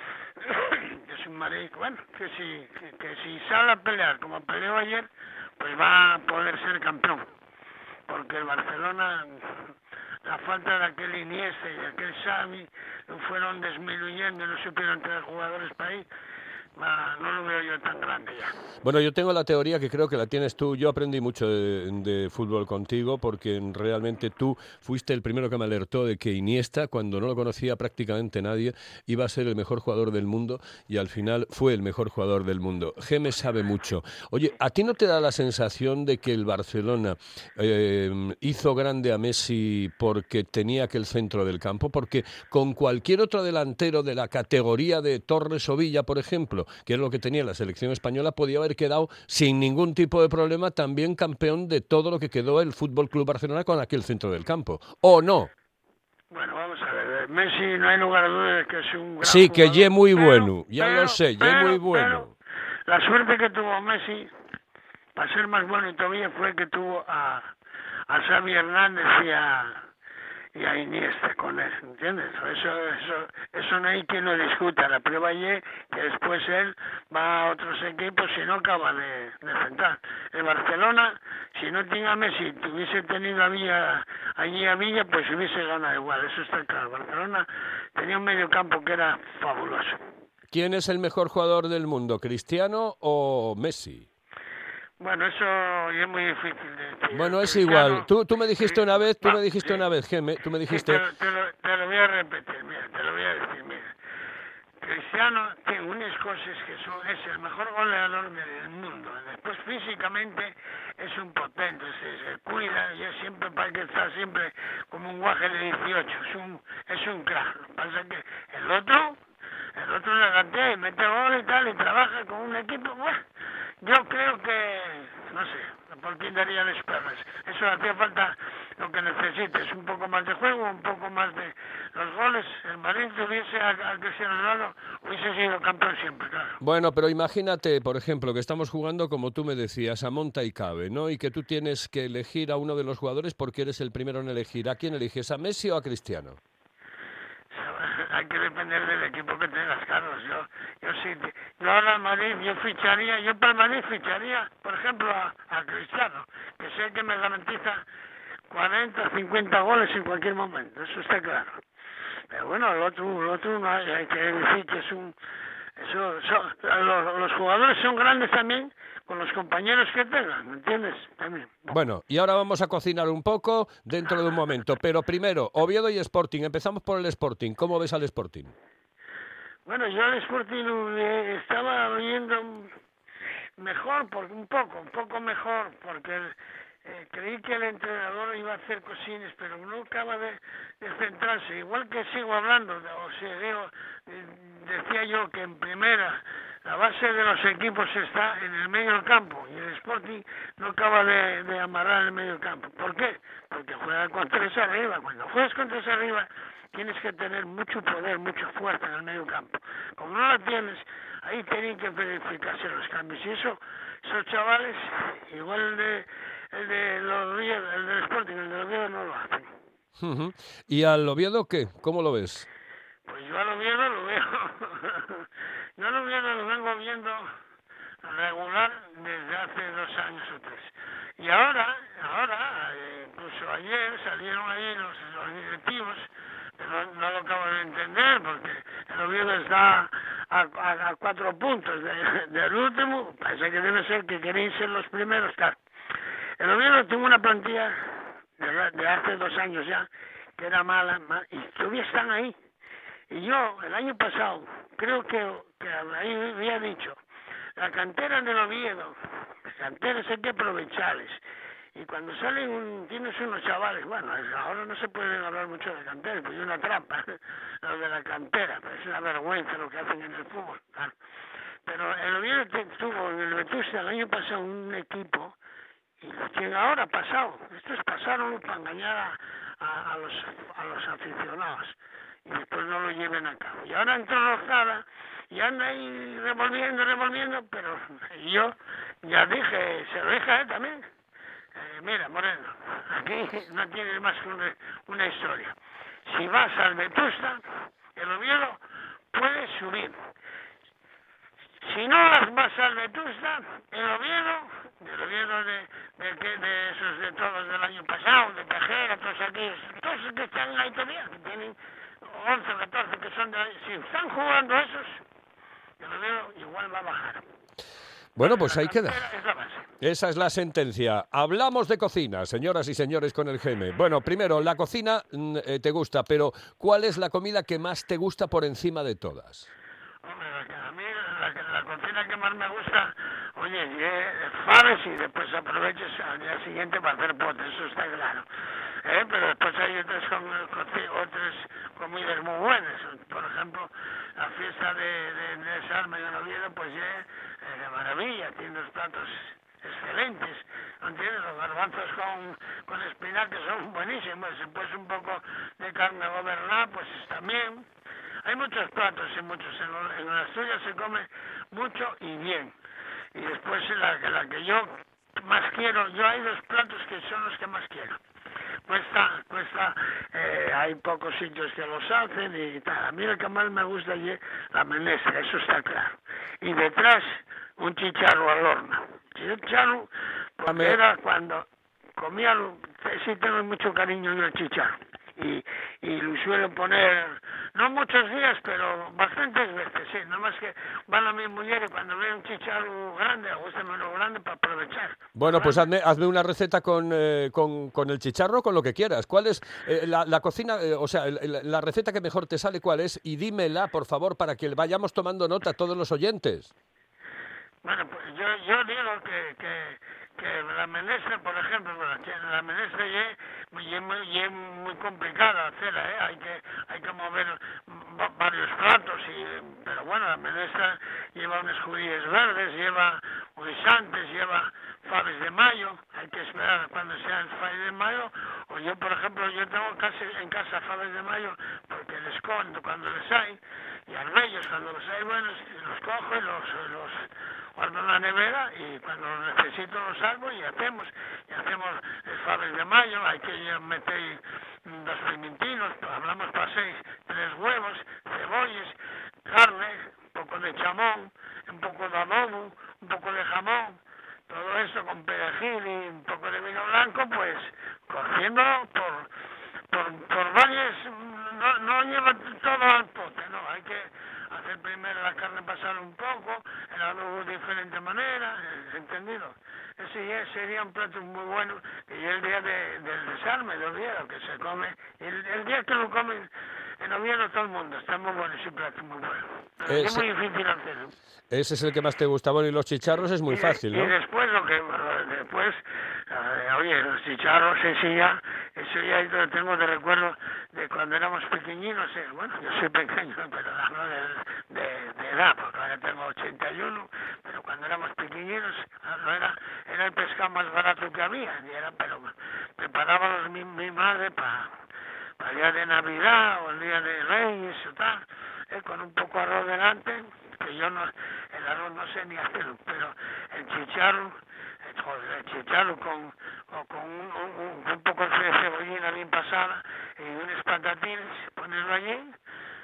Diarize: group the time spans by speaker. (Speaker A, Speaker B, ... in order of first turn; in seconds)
Speaker A: 0.4-5.1, 5.6-7.3, 8.1-9.7, 10.2-16.1, 16.8-18.6, 56.3-62.3, 62.9-64.3, 65.2-67.5, 68.1-69.8, 70.5-90.0, 95.0-98.1, 98.6-99.8, 100.7-103.9, 104.8-119.2, 119.8-123.2, 123.8-136.6, 147.5-157.8, 158.5-161.6, 162.3-165.2, 165.8-171.8, 179.7-182.7, 183.6-219.5, 223.1-225.3, 225.8-227.3, 228.0-245.6, 246.4-247.8, 248.4-252.4, 253.1-257.0, 257.6-261.2, 261.8-270.9, 271.7-275.4, 276.0-290.9, 291.6-295.6, 296.1-297.4, 298.0-298.6, 299.1-300.0, 301.6-315.0, 315.8-317.2, 318.2-319.7, 330.0-338.3, 338.8-357.7, 358.2-362.5, 363.1-368.0, 368.7-381.4, 382.0-395.7, 407.6-459.1, 459.7-480.9, 483.3-504.6, 505.2-522.1
Speaker B: 18.8-55.5, 59.2-62.3, 90.5-94.1, 97.1-101.0, 136.6-146.4, 171.7-178.6, 220.0-222.5, 318.2-319.0, 319.8-329.5, 380.5-380.8, 395.2-406.5, 479.7-480.1, 481.3-483.9